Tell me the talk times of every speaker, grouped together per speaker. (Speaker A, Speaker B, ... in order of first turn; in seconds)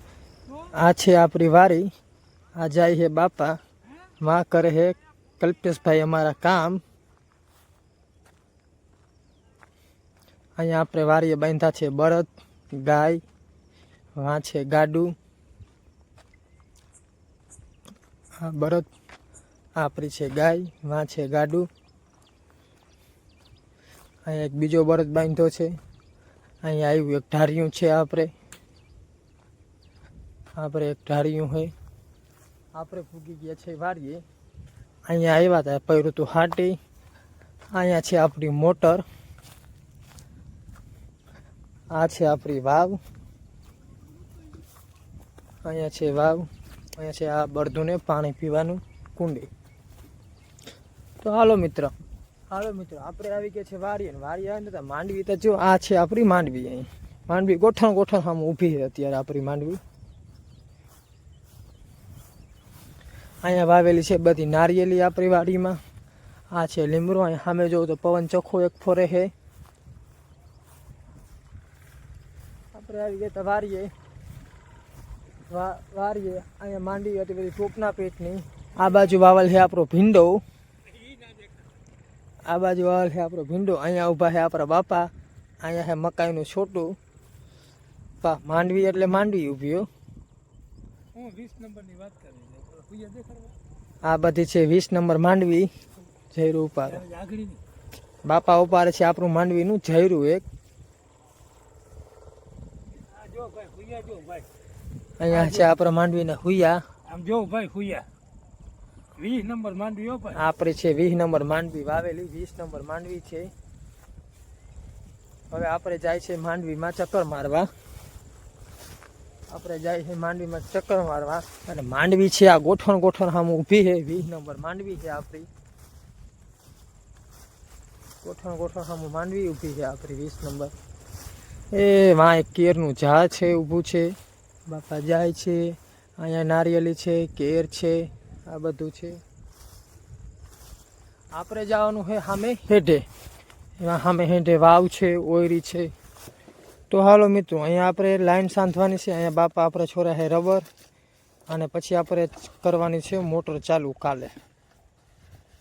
Speaker A: 0.7-1.9, 2.6-3.6, 4.2-6.8, 10.6-13.2, 14.2-15.1, 18.4-18.9, 19.8-21.7, 24.2-25.8, 26.6-28.3, 30.6-31.7, 32.7-34.2, 35.1-36.8, 37.7-39.0, 41.9-43.0, 45.6-49.5, 51.2-51.9, 52.5-59.8, 63.4-65.8, 66.5-69.3, 72.7-73.9, 75.5-80.4, 82.4-87.0, 88.2-89.9, 94.0-95.7, 96.3-97.0, 98.2-100.4, 105.2-106.8, 110.3-113.5, 115.5-117.7, 119.5-125.5, 128.2-130.7, 131.7-134.2, 134.7-139.2, 141.3-143.1, 143.8-145.9, 146.9-150.7, 151.5-154.3
Speaker B: 81.0-81.5, 91.1-93.6, 96.9-97.6, 103.1-104.5, 105.3-105.7, 107.1-108.1, 109.2-110.4